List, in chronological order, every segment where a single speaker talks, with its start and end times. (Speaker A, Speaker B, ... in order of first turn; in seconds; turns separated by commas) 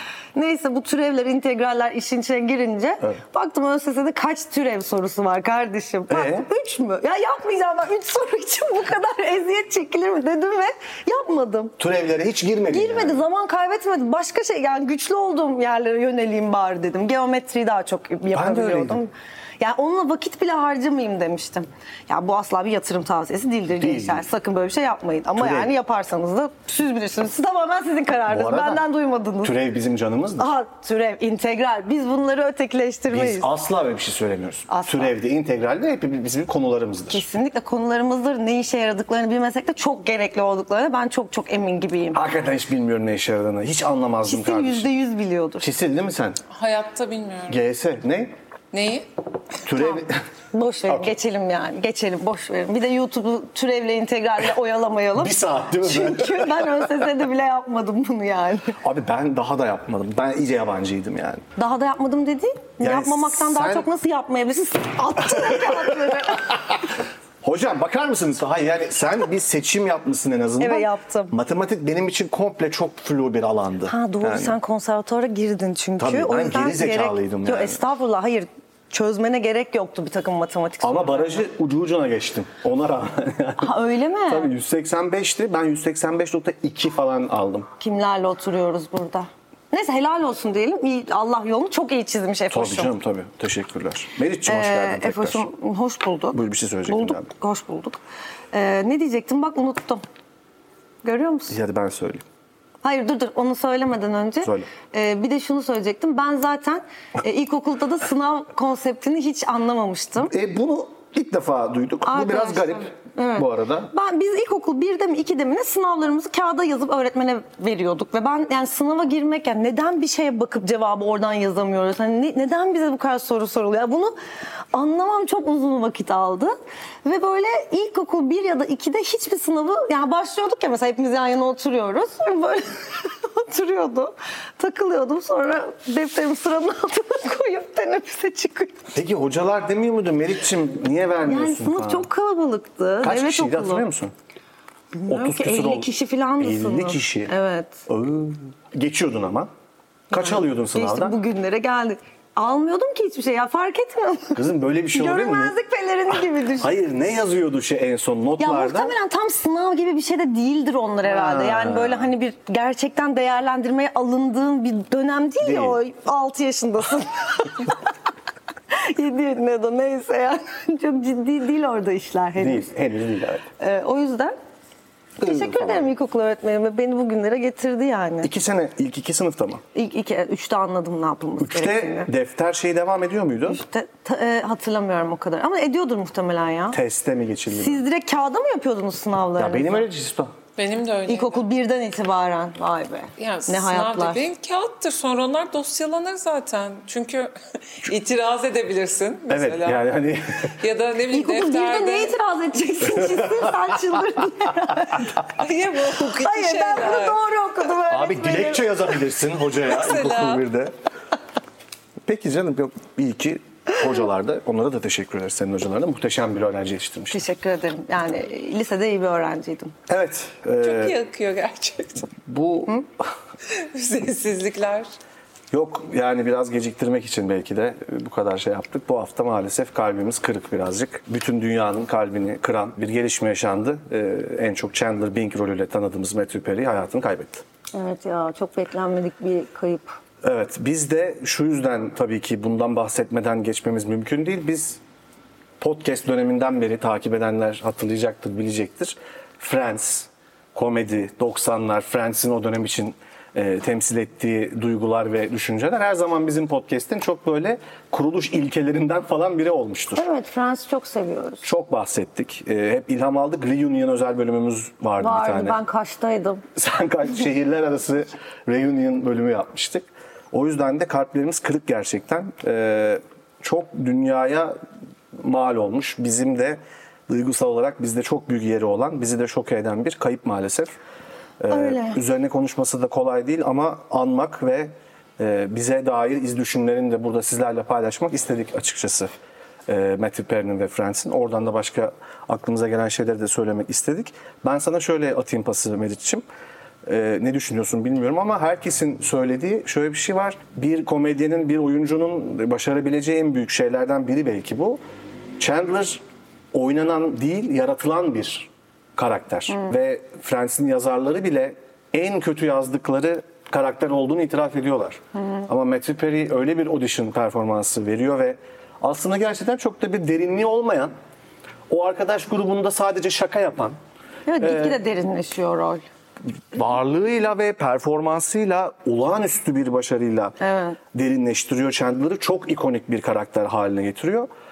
Speaker A: 0.3-11.7, Speaker B: 6.1-6.5, Speaker B: 11.8-13.2, Speaker A: 12.7-29.5, Speaker B: 18.3-19.0, Speaker B: 23.8-24.2, Speaker B: 25.4-25.7, Speaker B: 28.3-28.8, Speaker B: 29.4-30.5, Speaker A: 30.4-33.5, Speaker B: 33.1-37.2, Speaker A: 34.7-35.1, Speaker A: 37.1-42.2, Speaker B: 42.1-44.9, Speaker A: 44.2-45.6, Speaker B: 45.6-46.4, Speaker C: 46.5-47.6, Speaker B: 47.5-48.3, Speaker C: 48.7-49.0, Speaker B: 49.6-50.1, Speaker A: 49.7-50.0, Speaker A: 50.5-58.8, Speaker B: 55.2-56.9, Speaker B: 58.8-61.4, Speaker A: 61.6-66.6, Speaker B: 62.8-63.9, Speaker B: 65.3-65.9, Speaker B: 67.4-74.5, Speaker A: 70.6-71.3, Speaker A: 73.8-81.4, Speaker B: 76.0-77.8, Speaker B: 80.8-83.7, Speaker A: 83.6-84.5, Speaker B: 84.3-87.7, Speaker A: 87.8-92.9, Speaker B: 92.5-95.5, Speaker A: 94.4-98.0, Speaker B: 96.3-97.3, Speaker A: 98.5-100.0, Speaker A: 101.0-101.5, Speaker B: 101.5-102.2, Speaker A: 102.8-110.3, Speaker B: 104.4-104.7, Speaker B: 110.2-113.9, Speaker A: 112.0-124.1, Speaker A: 124.7-126.5, Speaker A: 127.0-138.9, Speaker B: 138.9-142.1, Speaker A: 141.2-143.8, Speaker B: 143.0-144.1, Speaker A: 144.9-147.8, Speaker B: 145.1-147.3, Speaker B: 147.9-149.5, Speaker B: 150.1-151.2, Speaker A: 150.1-154.4, Speaker B: 154.3-155.5, Speaker A: 154.9-156.7, Speaker B: 156.6-158.9, Speaker A: 158.4-167.8, Speaker B: 161.0-162.1, Speaker B: 165.4-165.8, Speaker A: 168.7-172.7, Speaker B: 172.4-173.4, Speaker A: 173.6-174.3, Speaker B: 175.2-175.9, Speaker A: 175.2-178.3, Speaker B: 178.2-179.6, Speaker A: 179.7-182.1, Speaker B: 181.4-183.6, Speaker A: 183.5-186.8, Speaker B: 186.7-187.8, Speaker A: 187.5-189.9, Speaker B: 189.4-190.3, Speaker C: 190.6-191.4, Speaker A: 191.1-194.2, Speaker C: 193.2-199.8, Speaker B: 199.3-200.5, Speaker C: 200.6-202.1, Speaker A: 201.1-205.2, Speaker B: 202.8-204.0, Speaker C: 205.4-207.2, Speaker A: 205.8-208.7, Speaker B: 207.9-210.7, Speaker C: 209.6-210.4, Speaker B: 212.1-217.2, Speaker A: 217.1-219.7, Speaker B: 219.9-221.0, Speaker C: 220.6-222.1, Speaker B: 222.2-222.8, Speaker C: 223.5-224.9, Speaker B: 225.5-237.4, Speaker A: 237.7-240.0, Speaker B: 240.2-244.8, Speaker B: 245.6-260.0, Speaker A: 259.9-261.4, Speaker B: 261.4-265.6, Speaker A: 265.0-266.4, Speaker B: 266.6-274.5, Speaker B: 275.1-280.8, Speaker B: 281.4-289.1, Speaker A: 281.5-282.0, Speaker B: 289.7-296.2, Speaker B: 296.8-304.8, Speaker B: 305.4-306.0, Speaker B: 306.5-320.9, Speaker B: 321.7-323.8, Speaker A: 324.2-325.8, Speaker B: 324.4-324.8, Speaker B: 326.5-330.4, Speaker A: 330.4-330.8, Speaker B: 330.9-334.3